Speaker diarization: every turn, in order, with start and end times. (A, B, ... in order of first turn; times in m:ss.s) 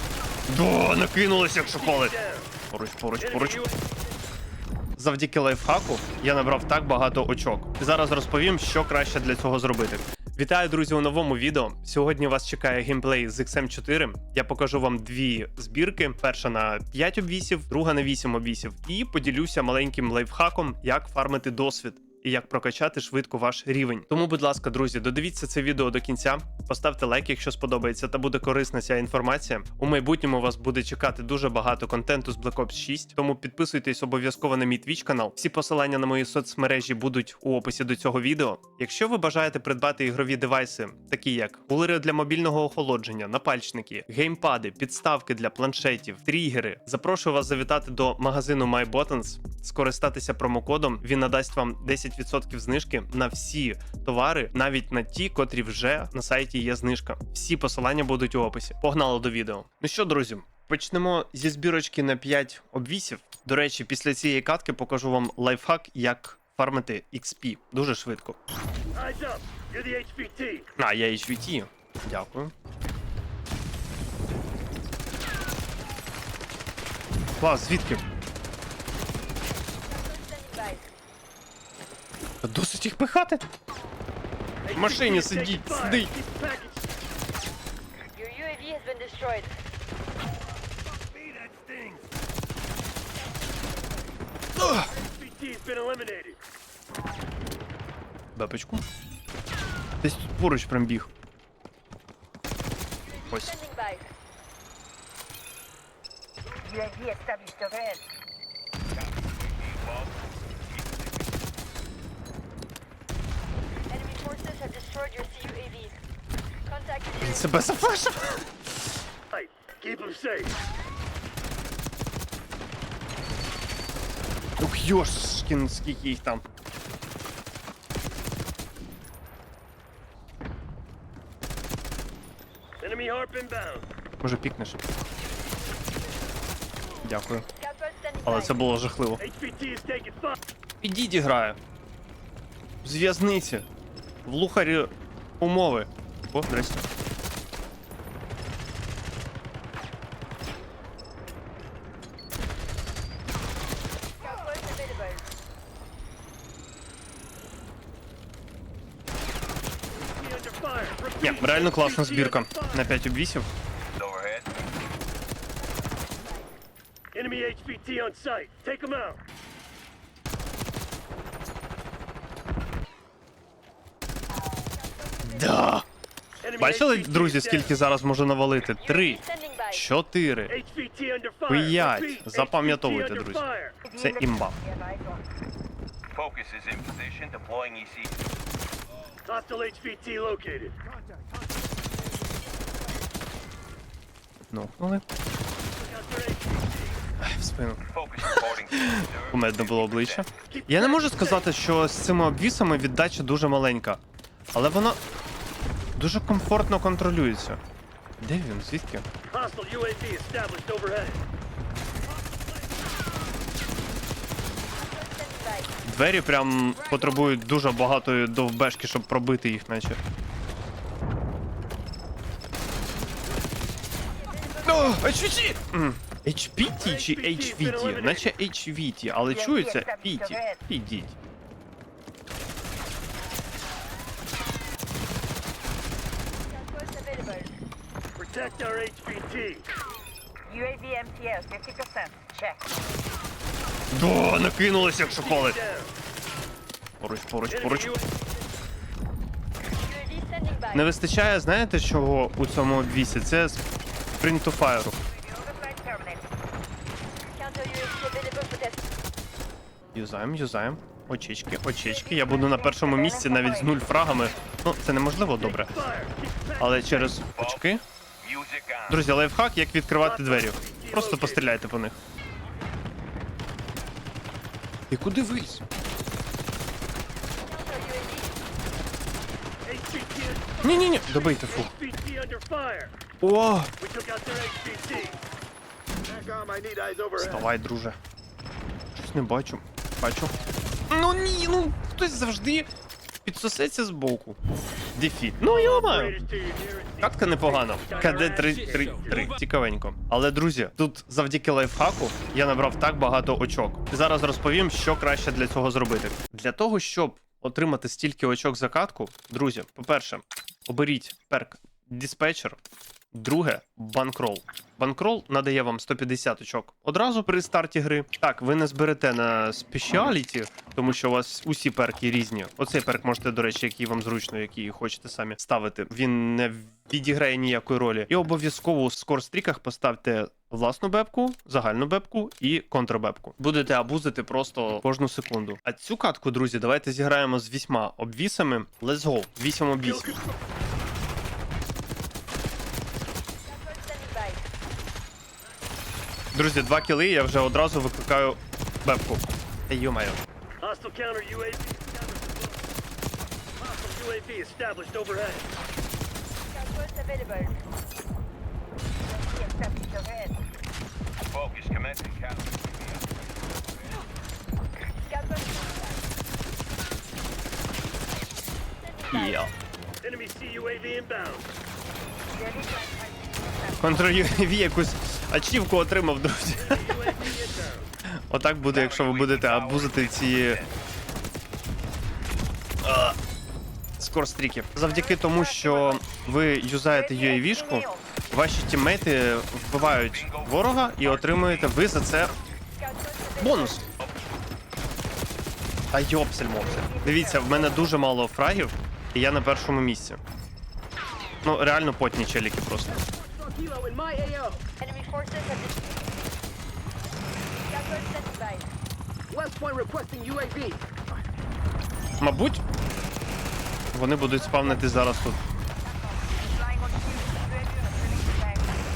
0:00.5-0:03.7 A
0:05.0-1:08.4 A
1:09.0-1:10.7 B
1:10.8-1:12.5 A
1:17.4-1:18.0 A
1:19.9-1:20.8 C
1:22.4-1:23.4 A
1:24.7-1:26.1 A
1:24.7-1:26.8 B
1:28.2-1:29.5 C
1:31.2-1:31.9 B
1:34.6-1:34.9 A
1:35.0-1:36.4 B
1:38.4-1:38.8 A
1:40.0-1:41.1 A
1:43.3-1:43.7 A
1:43.7-1:44.0 C
1:46.7-1:48.0 D
1:53.9-1:56.0 C
1:56.7-1:57.2 C
1:57.2-1:58.4 A
1:59.4-2:00.5 B
2:04.6-2:06.4 A
2:12.8-2:13.8 B
2:14.2-2:14.8 A
2:17.0-2:17.5 A
2:17.7-2:18.2 C
2:18.2-2:19.2 A
2:19.2-2:20.4 B
2:20.8-2:21.6 A
2:22.8-2:23.7 A
2:24.2-2:26.9 A
2:34.2-2:35.2 C
2:40.2-2:42.6 B
2:41.2-2:43.5 A
2:47.2-2:49.2 B
2:55.2-2:55.9 A
2:56.5-2:57.5 B
2:56.6-3:00.6 A
2:59.3-2:59.6 C
3:00.6-3:03.7 B
3:01.5-3:04.6 A
3:06.2-3:08.1 E
3:09.3-3:10.7 B
3:14.5-3:15.0 A
3:16.0-3:16.7 B
3:17.2-3:24.0 A
3:24.5-3:25.0 A
3:26.0-3:27.6 A
3:28.2-3:29.1 A
3:29.3-3:31.2 B
3:35.0-3:35.7 C
3:35.8-3:40.0 A
3:44.3-3:44.6 C
3:44.6-3:51.2 A
3:46.9-3:48.2 B
3:56.7-3:57.5 C
3:58.2-3:59.7 B
4:00.5-4:02.6 D
4:03.9-4:05.6 A
4:07.0-4:08.0 A
4:09.9-4:10.7 C
4:10.7-4:13.6 A
4:14.2-4:15.0 A
4:15.3-4:16.2 D
4:17.4-4:18.8 C
4:19.9-4:25.8 A
4:25.8-4:26.5 B
4:26.6-4:27.8 A
4:28.3-4:28.8 E
4:28.9-4:32.0 A
4:30.6-4:31.0 B
4:34.9-4:35.6 A
4:37.5-4:38.3 C
4:39.7-4:40.6 B
4:40.6-4:41.7 A
4:41.6-4:42.9 B
4:43.2-4:43.7 A
4:43.8-4:45.2 B
4:46.2-4:47.2 B
4:47.2-4:48.0 A
4:48.9-4:50.3 A
4:50.9-4:52.7 A
4:53.2-4:54.4 A
4:55.0-4:56.2 A
4:55.8-4:57.1 B
4:57.0-5:12.6 A
4:57.7-4:59.1 B
5:13.1-5:40.2 A
5:43.6-5:44.4 C
5:46.3-5:50.2 A
5:50.6-5:52.5 B
5:53.6-5:55.5 B
5:56.6-5:57.5 C
5:59.4-6:00.3 D
6:01.4-6:02.3 E
6:05.1-6:06.0 C
6:09.1-6:09.5 A
6:10.0-6:11.5 B
6:12.4-6:13.2 D
6:13.8-6:17.3 A
6:16.8-6:17.8 B
6:18.3-6:20.7 A
6:22.8-6:23.2 A
6:24.0-6:32.3 A
6:32.8-6:33.3 C
6:33.3-6:33.9 A
6:35.9-6:40.2 A
6:41.4-6:43.1 A
6:43.4-6:44.6 B
6:44.8-6:46.0 C
6:47.7-6:48.7 C
6:49.4-6:50.7 B
6:52.2-6:52.6 A
6:53.9-6:55.4 A
6:56.6-6:58.6 D